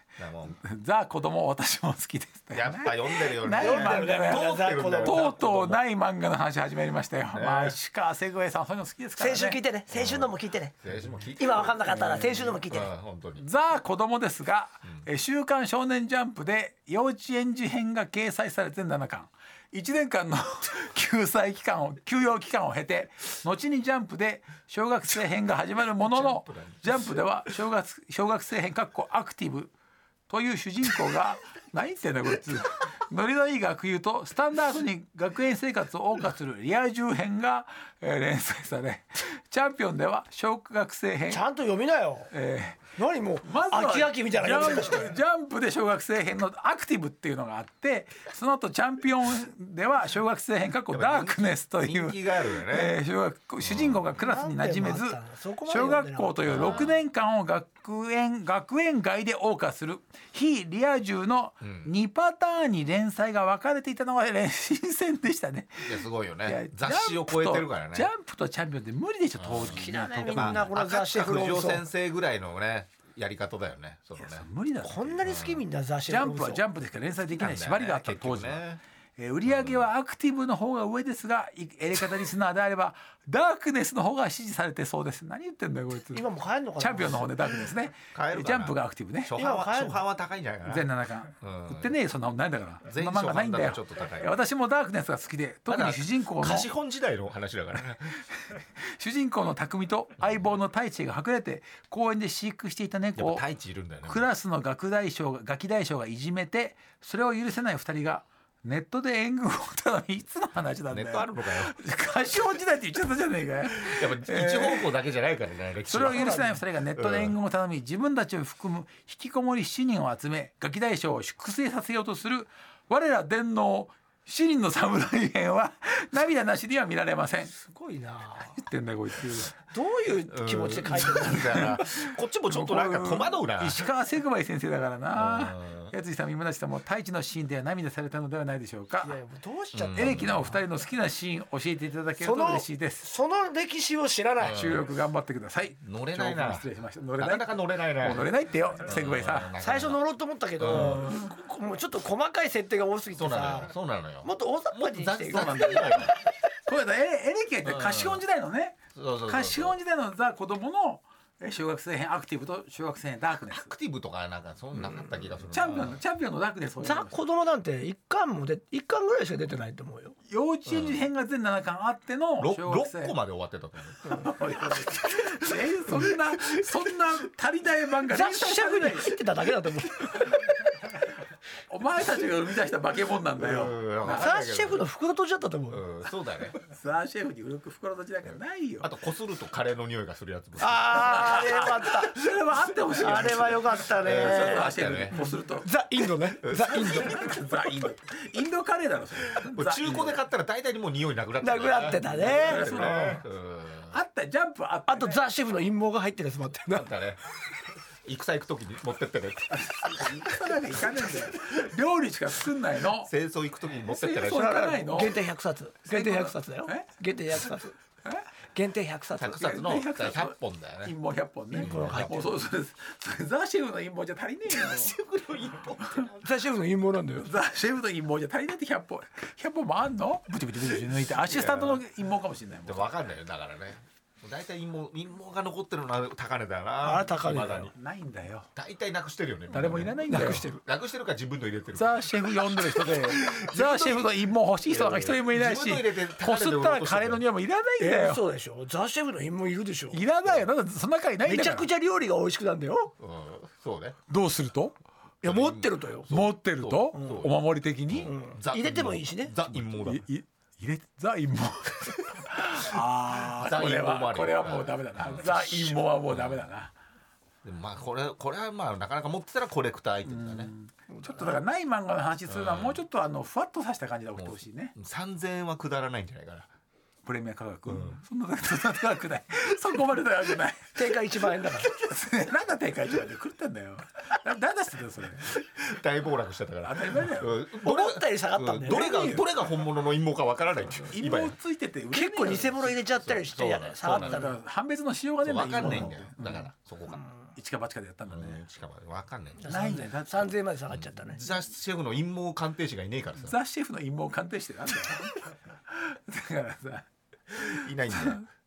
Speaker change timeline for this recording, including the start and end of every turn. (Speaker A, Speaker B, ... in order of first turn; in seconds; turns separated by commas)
Speaker A: 0.2-0.6, Speaker B: 0.5-9.6, Speaker A: 2.5-5.8, Speaker C: 3.6-5.3, Speaker A: 7.3-7.8, Speaker C: 9.2-10.7, Speaker A: 9.9-13.4, Speaker C: 11.4-12.9, Speaker B: 13.4-29.7, Speaker A: 26.0-27.2, Speaker B: 30.3-41.4, Speaker C: 41.3-42.3, Speaker B: 42.3-42.9, Speaker C: 43.0-45.1, Speaker B: 43.4-70.7, Speaker A: 50.9-53.0, Speaker A: 53.6-54.0, Speaker C: 54.2-56.8, Speaker A: 56.5-57.0, Speaker A: 61.6-61.9, Speaker A: 65.8-68.1, Speaker A: 69.4-74.5, Speaker C: 69.7-71.8, Speaker B: 74.2-75.1, Speaker C: 74.8-76.6, Speaker A: 75.2-75.6, Speaker B: 76.1-78.6, Speaker A: 77.3-78.8, Speaker B: 79.2-86.2, Speaker A: 79.5-79.9, Speaker C: 86.1-87.3, Speaker B: 86.8-89.3, Speaker A: 88.1-90.8, Speaker C: 89.3-90.0, Speaker B: 90.7-96.7, Speaker A: 91.4-91.9, Speaker A: 92.8-94.3, Speaker A: 95.7-98.2, Speaker B: 98.5-103.4, Speaker A: 103.2-104.3, Speaker B: 104.0-114.9, Speaker A: 110.9-111.7, Speaker A: 113.8-117.3, Speaker B: 115.9-127.5, Speaker C: 116.1-116.6, Speaker C: 127.5-128.6, Speaker B: 128.5-129.6, Speaker C: 129.7-131.7, Speaker A: 130.3-133.9, Speaker B: 131.2-132.0, Speaker B: 132.5-139.2, Speaker A: 135.2-135.9, Speaker C: 139.0-140.4, Speaker A: 139.7-140.6, Speaker B: 139.9-143.1, Speaker C: 142.2-144.6, Speaker A: 144.4-144.9, Speaker B: 144.5-149.5, Speaker A: 145.8-148.3, Speaker A: 148.8-150.0, Speaker C: 149.6-153.7, Speaker A: 150.6-151.2, Speaker A: 153.1-156.1, Speaker C: 154.2-156.0, Speaker B: 155.3-156.1, Speaker B: 156.7-163.7, Speaker A: 157.6-158.2, Speaker A: 158.9-159.8, Speaker A: 163.5-166.0, Speaker B: 165.5-167.1, Speaker C: 166.8-170.2, Speaker B: 170.3-173.2, Speaker A: 170.7-171.1, Speaker A: 172.4-174.3, Speaker B: 174.0-179.2, Speaker A: 175.9-176.6, Speaker C: 178.1-180.4, Speaker B: 181.7-184.3, Speaker A: 183.4-184.8, Speaker C: 184.1-185.8, Speaker A: 185.7-186.5, Speaker B: 186.6-188.9, Speaker A: 188.2-191.4, Speaker C: 190.6-192.2, Speaker B: 191.0-195.7, Speaker C: 193.0-194.7, Speaker A: 194.0-195.2, Speaker C: 195.6-197.3, Speaker A: 196.4-197.4, Speaker B: 196.7-200.1, Speaker A: 199.4-204.0, Speaker C: 201.4-202.9, Speaker B: 202.2-203.2, Speaker B: 203.9-205.2, Speaker C: 204.9-206.9, Speaker A: 206.7-207.2, Speaker A: 208.0-209.9, Speaker B: 209.5-213.1, Speaker A: 213.0-214.7, Speaker B: 213.8-215.2, Speaker C: 214.3-217.7, Speaker B: 215.9-216.9, Speaker C: 218.5-219.5, Speaker A: 219.2-220.9, Speaker B: 219.4-224.9, Speaker C: 221.5-222.2, Speaker A: 221.5-222.2, Speaker A: 224.5-226.3, Speaker C: 226.2-227.3, Speaker B: 227.2-232.9, Speaker A: 231.2-231.8, Speaker A: 232.7-237.7, Speaker C: 236.8-237.7, Speaker B: 237.7-238.5, Speaker A: 238.5-244.1, Speaker B: 239.5-240.5, Speaker C: 240.1-240.6, Speaker B: 241.7-248.2, Speaker A: 244.7-247.2, Speaker C: 247.8-250.0, Speaker B: 249.9-251.7, Speaker C: 251.2-252.9, Speaker A: 253.0-254.0, Speaker B: 254.1-254.7, Speaker C: 255.2-256.1, Speaker A: 255.2-260.1, Speaker B: 256.1-258.1, Speaker C: 256.9-257.2, Speaker C: 258.0-259.3, Speaker B: 259.6-266.7, Speaker A: 262.5-266.5, Speaker A: 267.4-270.5, Speaker B: 270.1-274.7, Speaker C: 270.9-271.4, Speaker A: 272.3-272.8, Speaker A: 274.1-276.5, Speaker B: 277.0-285.3, Speaker A: 277.7-278.0, Speaker C: 280.7-281.7, Speaker A: 285.3-291.4, Speaker B: 286.6-287.4, Speaker C: 287.6-289.2, Speaker B: 288.7-289.2, Speaker B: 290.9-292.8, Speaker C: 291.9-294.4, Speaker A: 293.0-294.2, Speaker B: 293.8-296.5, Speaker A: 295.2-297.1, Speaker C: 295.6-295.9, Speaker B: 297.4-298.4, Speaker A: 298.1-299.5, Speaker C: 299.4-301.2, Speaker B: 299.5-300.3, Speaker A: 300.7-303.4, Speaker B: 303.2-308.2, Speaker A: 307.4-308.2